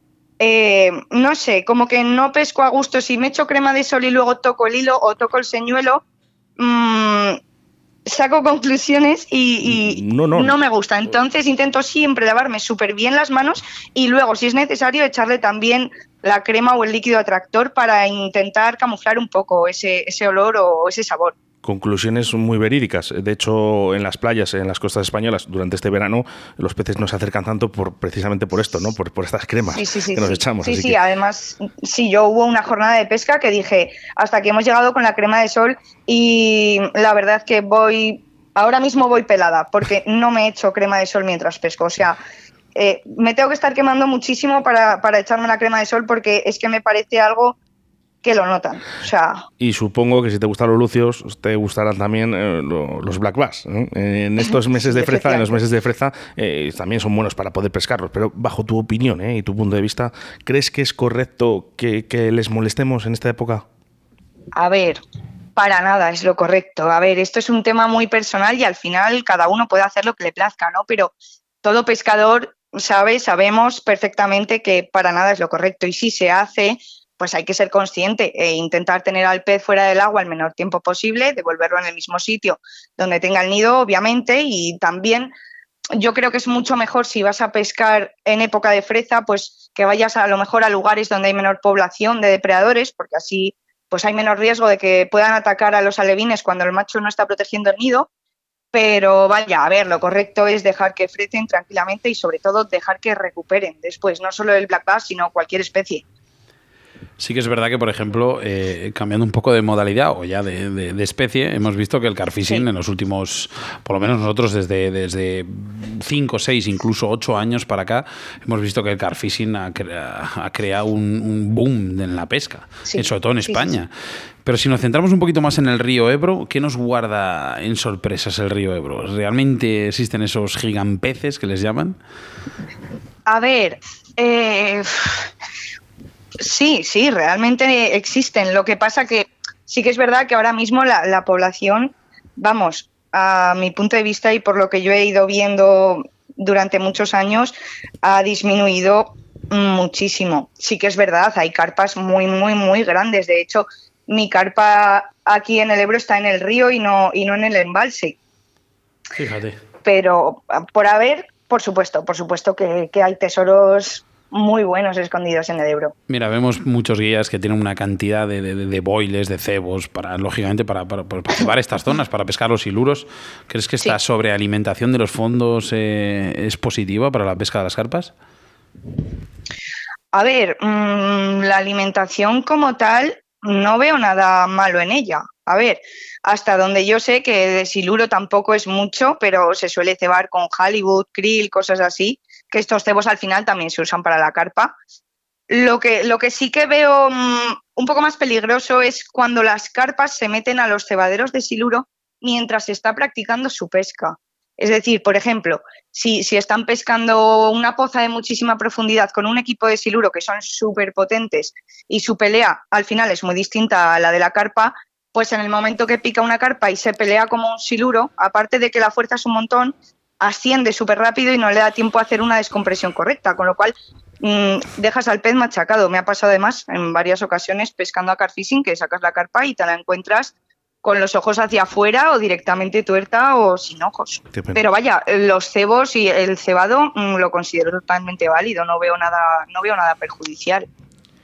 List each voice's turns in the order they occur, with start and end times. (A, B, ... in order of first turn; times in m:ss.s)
0:00.4-0:06.0 A
0:06.6-0:07.4 A
0:08.1-0:21.4 A
0:09.6-0:10.6 B
0:21.6-0:31.0 B
0:29.7-0:42.2 A
0:42.8-0:47.6 A
0:48.2-0:49.5 A
0:49.6-1:03.6 B
0:54.4-0:55.6 A
1:04.6-1:05.0 A
1:05.6-1:25.3 A
1:26.0-1:38.1 A
1:38.7-1:46.0 A
1:47.2-2:03.9 C
2:02.9-2:03.8 A
2:04.4-2:12.0 C
2:13.3-2:15.2 A
2:16.4-2:38.2 A
2:39.2-2:39.6 C
2:39.8-2:45.9 A
2:46.1-2:58.1 C
3:00.1-3:14.7 A
3:15.5-4:00.7 A
3:54.3-3:54.6 B